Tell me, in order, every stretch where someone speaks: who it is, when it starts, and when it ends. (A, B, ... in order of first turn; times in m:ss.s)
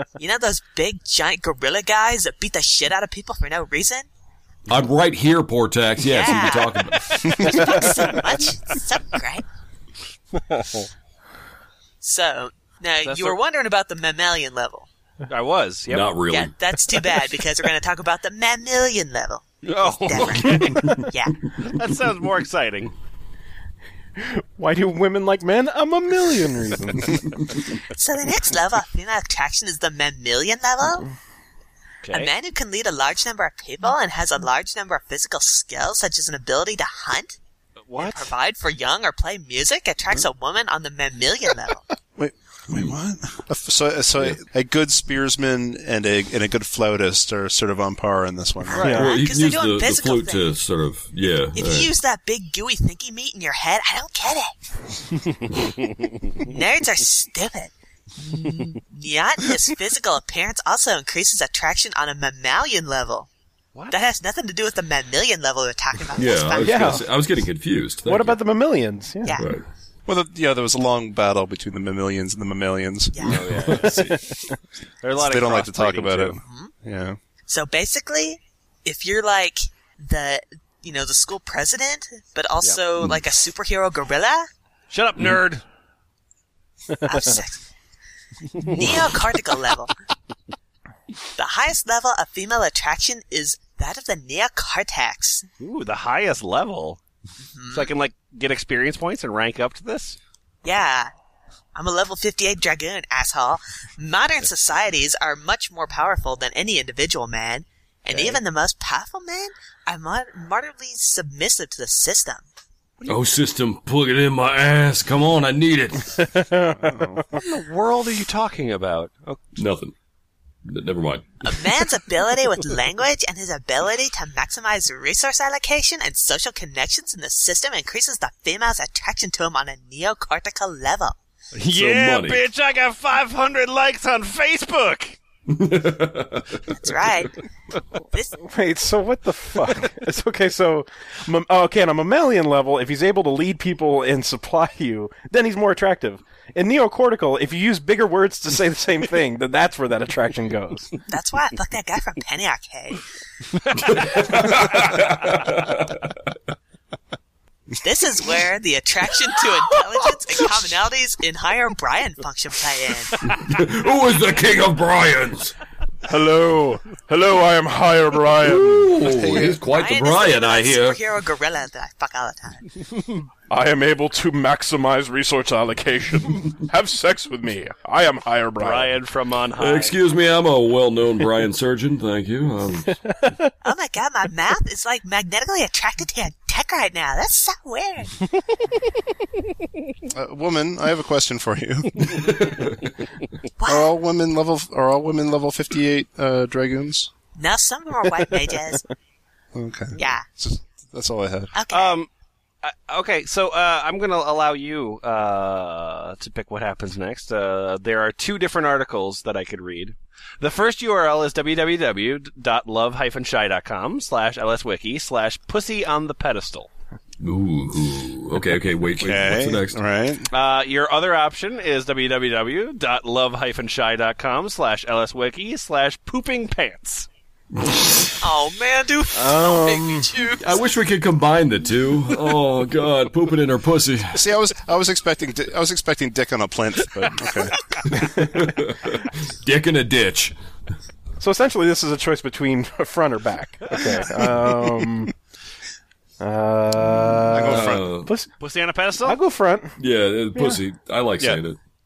0:00.2-0:04.1 A
0:04.7-0:07.3 B
0:06.0-0:09.4 A
0:06.9-0:08.2 C
0:10.5-0:10.8 C
0:12.0-0:14.9 A
0:13.0-0:13.4 C
0:15.3-0:16.2 C
0:15.9-0:16.6 B
0:16.2-0:21.5 A
0:19.6-0:21.0 C
0:20.6-0:21.1 B
0:21.6-0:22.9 C
0:24.2-0:27.4 D
0:27.9-0:31.1 A
0:32.0-0:32.3 C
0:32.1-0:37.4 A
0:37.9-0:38.3 C
0:38.0-0:41.8 A
0:42.2-0:49.0 E
0:48.7-0:49.1 C
0:48.8-0:49.1 D
0:48.9-0:50.5 A
0:48.9-0:51.9 B
0:51.5-0:54.5 A
0:55.6-0:56.2 C
0:56.4-1:03.3 A
1:03.9-1:07.0 A
1:06.2-1:08.4 B
1:06.6-1:07.0 D
1:08.1-1:09.4 D
1:09.3-1:09.7 B
1:10.1-1:13.4 E
1:13.1-1:13.5 A
1:13.2-1:14.2 C
1:13.3-1:14.3 B
1:15.0-1:16.4 C
1:15.2-1:17.2 E
1:16.4-1:16.7 A
1:17.5-1:24.5 A
1:24.9-1:25.6 C
1:27.0-1:27.6 A
1:28.6-1:29.9 A
1:28.6-1:29.0 C
1:31.4-1:35.5 A
1:35.6-1:37.0 C
1:37.6-1:37.9 A
1:37.7-1:40.2 C
1:40.6-1:41.1 A
1:41.8-1:52.5 A
1:48.1-1:48.4 C
1:53.0-1:56.2 B
1:56.2-1:57.4 D
1:56.8-1:57.2 E
1:57.3-1:59.6 C
1:59.6-2:00.0 B
2:00.6-2:01.4 B
2:01.4-2:11.2 A
2:11.6-2:15.2 C
2:11.7-2:12.5 B
2:15.5-2:16.6 B
2:16.7-2:17.4 A
2:18.4-2:30.9 D
2:31.1-2:33.0 A
2:33.8-2:36.2 B
2:37.8-2:43.1 A
2:43.3-2:45.6 B
2:46.0-2:49.0 D
2:48.4-2:51.0 B
2:49.0-2:49.6 E
2:49.7-2:52.7 A
2:53.5-2:59.0 D
2:58.6-3:00.0 C
2:59.6-3:03.0 B
3:03.1-3:03.5 D
3:03.6-3:08.1 A
3:10.1-3:12.2 E
3:12.0-3:12.9 B
3:13.6-3:13.9 A
3:13.7-3:17.1 E
3:17.4-3:18.8 A
3:19.5-3:21.5 E
3:19.9-3:20.2 A
3:21.5-3:22.0 A
3:21.7-3:22.1 C
3:22.6-3:36.7 C
3:37.2-3:39.8 B
3:39.0-3:40.3 E
3:40.3-3:47.1 C
3:48.2-3:50.6 F
3:49.1-3:50.1 D
3:50.4-3:54.2 B
3:54.1-3:57.6 E
3:57.9-3:58.6 D
3:58.0-4:00.4 B
4:01.2-4:05.1 D
4:06.2-4:08.3 D
4:07.3-4:07.9 E
4:07.4-4:08.1 B
4:08.4-4:09.2 C
4:09.0-4:09.8 D
4:09.8-4:11.6 B
4:10.4-4:10.6 D